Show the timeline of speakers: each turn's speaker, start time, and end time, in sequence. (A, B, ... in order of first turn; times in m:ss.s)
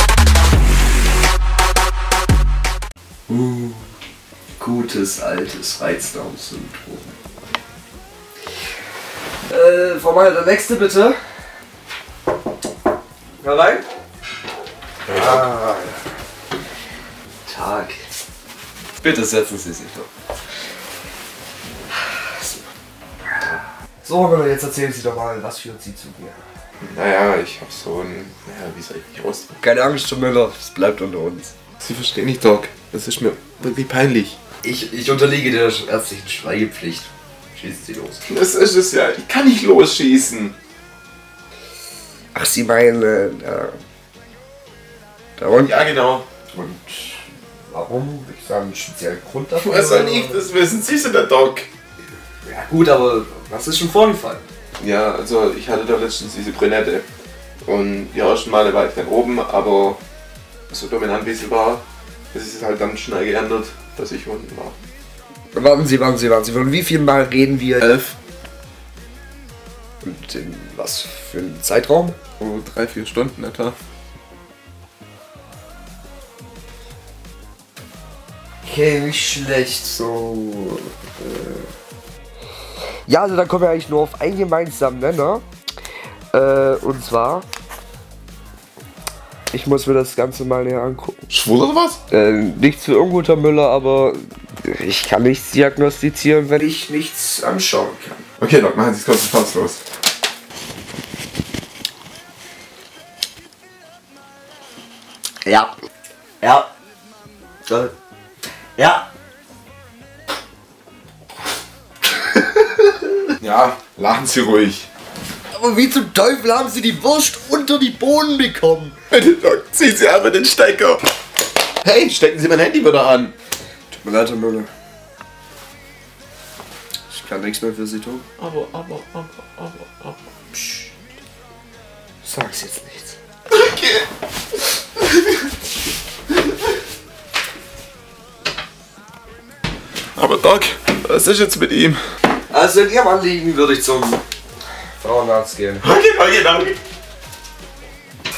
0:03.3-0:03.8 A
0:04.6-0:07.1 A
0:09.5-0:11.2 A
0:13.4-0:13.8 A
0:15.0-0:15.5 B
0:15.1-0:16.0 A
0:17.5-0:18.0 A
0:19.0-0:20.1 A
0:22.0-0:22.6 A
0:23.4-0:26.4 A
0:26.8-0:29.6 B
0:29.6-0:31.5 A
0:31.8-0:34.4 B
0:34.6-0:38.2 A
0:38.2-0:40.5 B
0:42.3-0:43.8 A
0:45.4-0:45.8 A
0:45.6-0:46.2 B
0:46.5-0:50.4 A
0:49.6-0:51.7 B
0:52.4-0:54.4 A
0:54.8-0:57.0 B
0:57.6-1:00.0 B
1:00.7-1:04.7 B
1:05.5-1:07.9 A
1:07.8-1:08.2 B
1:10.0-1:12.2 A
1:12.4-1:13.8 B
1:18.6-1:21.7 A
1:23.0-1:25.4 A
1:26.3-1:27.4 A
1:29.5-1:31.2 A
1:31.3-1:32.0 B
1:32.1-1:38.2 A
1:38.4-1:39.8 B
1:45.4-1:45.8 A
1:46.4-1:46.7 A
1:47.7-1:47.9 A
1:48.8-1:49.1 A
1:53.4-1:54.9 B
1:55.5-1:58.9 A
1:59.1-2:01.0 B
2:01.8-2:03.3 B
2:03.9-2:04.7 A
2:07.1-2:08.2 A
2:08.4-2:10.2 B
2:12.2-2:13.2 A
2:13.5-2:14.0 B
2:20.2-2:22.0 B
2:22.5-2:24.2 A
2:25.0-2:25.9 A
2:25.8-2:26.8 B